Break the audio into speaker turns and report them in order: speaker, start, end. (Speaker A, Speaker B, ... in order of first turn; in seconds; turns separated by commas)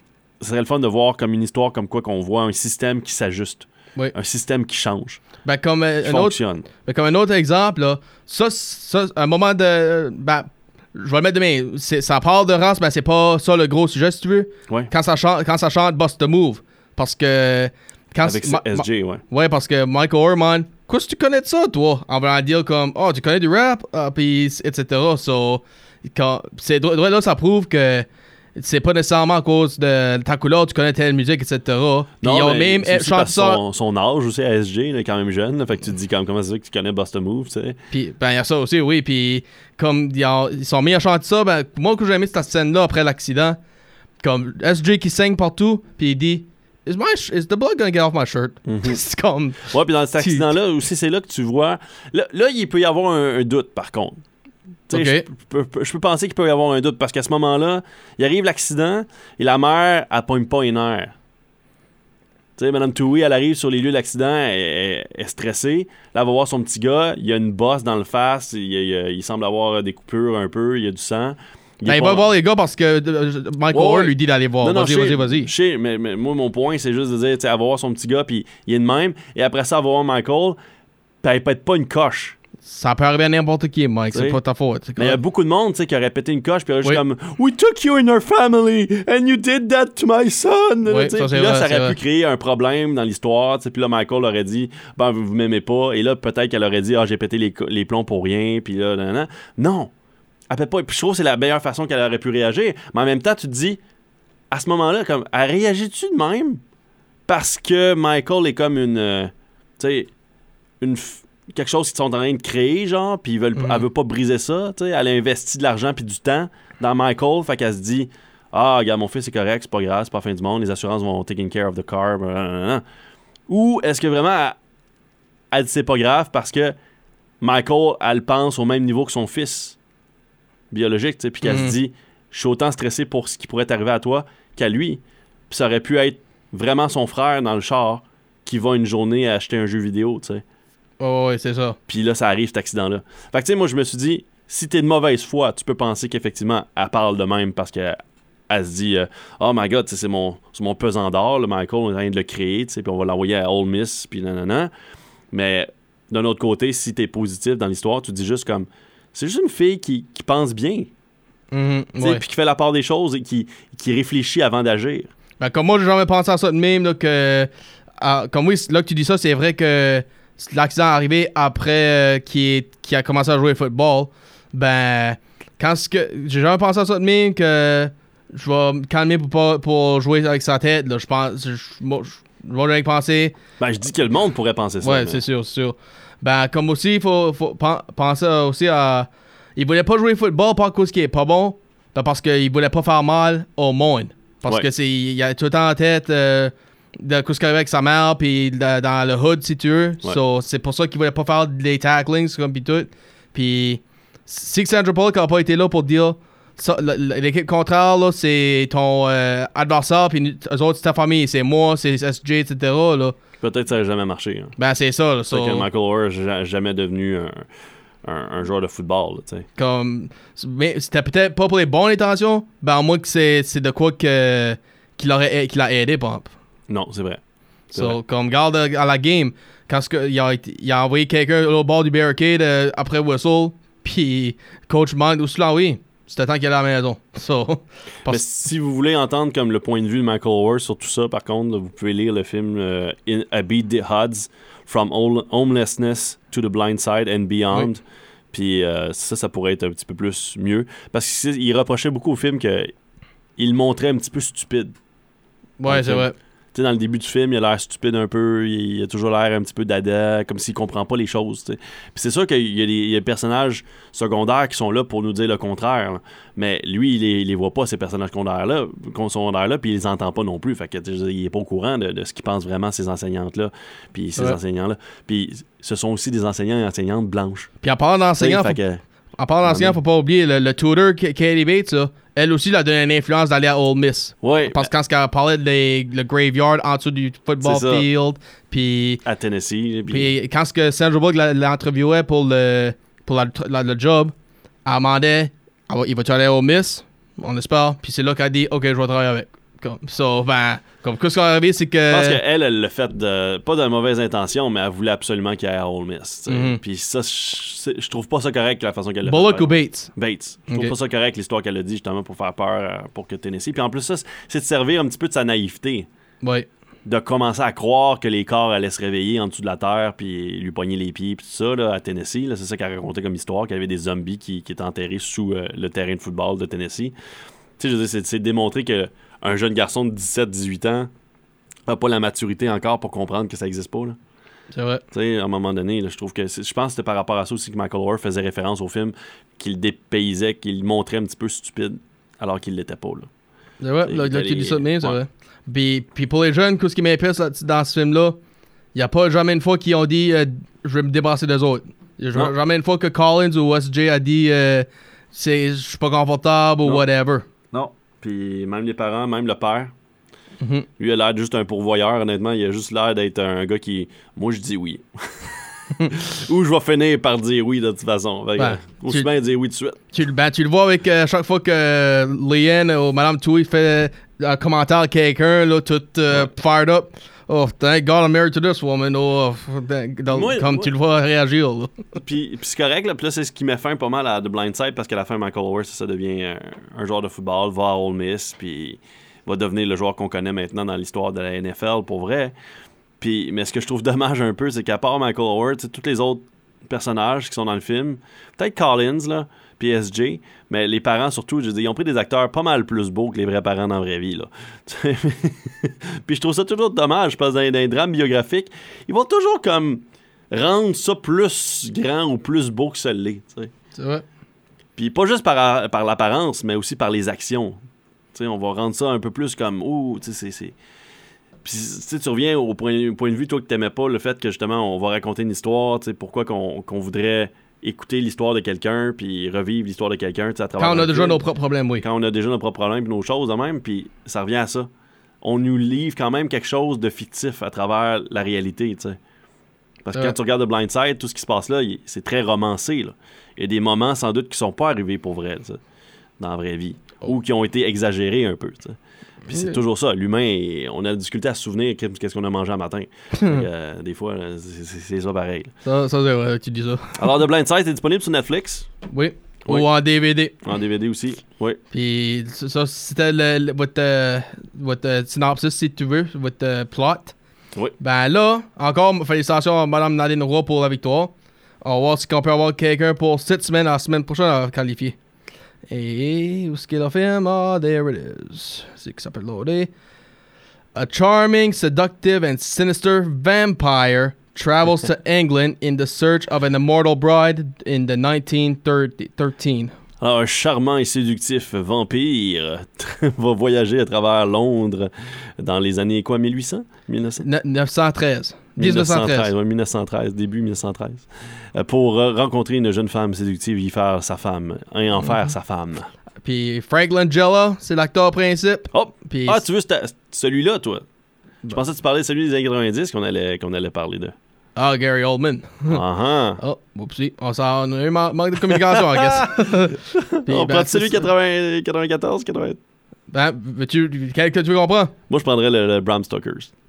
Speaker A: 0.4-5.2, Speaker B: 5.4-33.6, Speaker A: 6.0-6.7, Speaker A: 18.2-19.2, Speaker A: 32.2-37.8, Speaker B: 37.9-43.6, Speaker B: 44.2-50.5, Speaker A: 48.6-49.0, Speaker A: 49.6-54.2, Speaker A: 54.9-61.1, Speaker B: 54.9-55.2, Speaker A: 62.6-72.3, Speaker B: 71.8-75.5, Speaker A: 73.7-80.6, Speaker A: 81.2-82.3, Speaker B: 82.6-85.2, Speaker A: 84.1-84.4, Speaker A: 85.0-99.9, Speaker B: 90.8-92.0, Speaker A: 100.5-103.8, Speaker A: 104.5-106.6, Speaker A: 107.3-110.1, Speaker A: 110.8-122.8, Speaker B: 113.5-113.8, Speaker A: 123.5-124.6, Speaker A: 125.5-126.8, Speaker A: 127.4-129.8, Speaker A: 130.7-140.4, Speaker B: 131.4-131.8, Speaker B: 141.0-141.8, Speaker A: 141.9-148.0, Speaker A: 148.5-154.7, Speaker A: 155.3-160.9, Speaker B: 161.5-162.2, Speaker A: 162.0-165.1, Speaker B: 165.4-167.5, Speaker B: 168.0-183.3, Speaker A: 183.6-185.2, Speaker B: 184.8-213.2, Speaker A: 213.4-214.6, Speaker B: 214.6-215.7, Speaker A: 215.3-217.5, Speaker A: 218.0-219.4, Speaker B: 219.6-226.3, Speaker A: 226.7-228.0, Speaker B: 227.7-238.2, Speaker A: 238.1-252.7, Speaker A: 253.4-254.7, Speaker B: 255.6-256.1, Speaker A: 255.7-277.5, Speaker B: 277.6-278.6, Speaker A: 278.2-278.8, Speaker B: 279.2-289.0, Speaker A: 279.4-279.8, Speaker A: 284.2-284.7, Speaker A: 287.4-287.9, Speaker A: 289.0-290.1, Speaker B: 289.9-294.1, Speaker B: 294.6-302.2, Speaker A: 301.9-315.9, Speaker B: 306.3-306.6, Speaker B: 309.0-309.9, Speaker B: 310.5-310.7, Speaker B: 316.2-316.5, Speaker A: 316.8-326.9, Speaker A: 327.6-330.9, Speaker A: 331.7-334.0, Speaker B: 334.5-334.8, Speaker A: 334.9-343.1, Speaker B: 343.6-348.2, Speaker A: 343.8-345.0, Speaker B: 348.7-357.2, Speaker A: 357.5-359.7, Speaker B: 360.4-360.7, Speaker A: 360.8-369.8, Speaker B: 368.4-369.1, Speaker B: 369.9-381.7, Speaker A: 380.1-380.7, Speaker A: 381.9-392.3, Speaker A: 393.0-413.5, Speaker B: 413.7-414.0, Speaker A: 414.8-417.6, Speaker A: 418.1-420.5, Speaker A: 421.4-431.2, Speaker B: 430.6-431.8, Speaker A: 431.8-434.7, Speaker A: 435.2-439.0, Speaker A: 439.8-445.6, Speaker A: 446.2-455.5, Speaker B: 449.3-449.6, Speaker B: 453.2-453.4, Speaker B: 455.6-457.0, Speaker A: 456.9-458.7, Speaker B: 458.9-460.3, Speaker A: 460.4-461.6, Speaker B: 461.7-467.1, Speaker B: 467.8-475.0, Speaker B: 475.7-479.7, Speaker B: 480.7-489.7, Speaker A: 490.0-497.2, Speaker B: 497.2-499.3, Speaker A: 498.6-505.9, Speaker B: 506.2-509.4, Speaker A: 508.7-510.9, Speaker A: 511.5-514.1, Speaker B: 514.5-515.8, Speaker A: 515.7-516.4, Speaker B: 516.4-521.1, Speaker A: 518.5-519.3, Speaker A: 519.9-522.6, Speaker B: 523.1-524.9, Speaker A: 525.1-526.5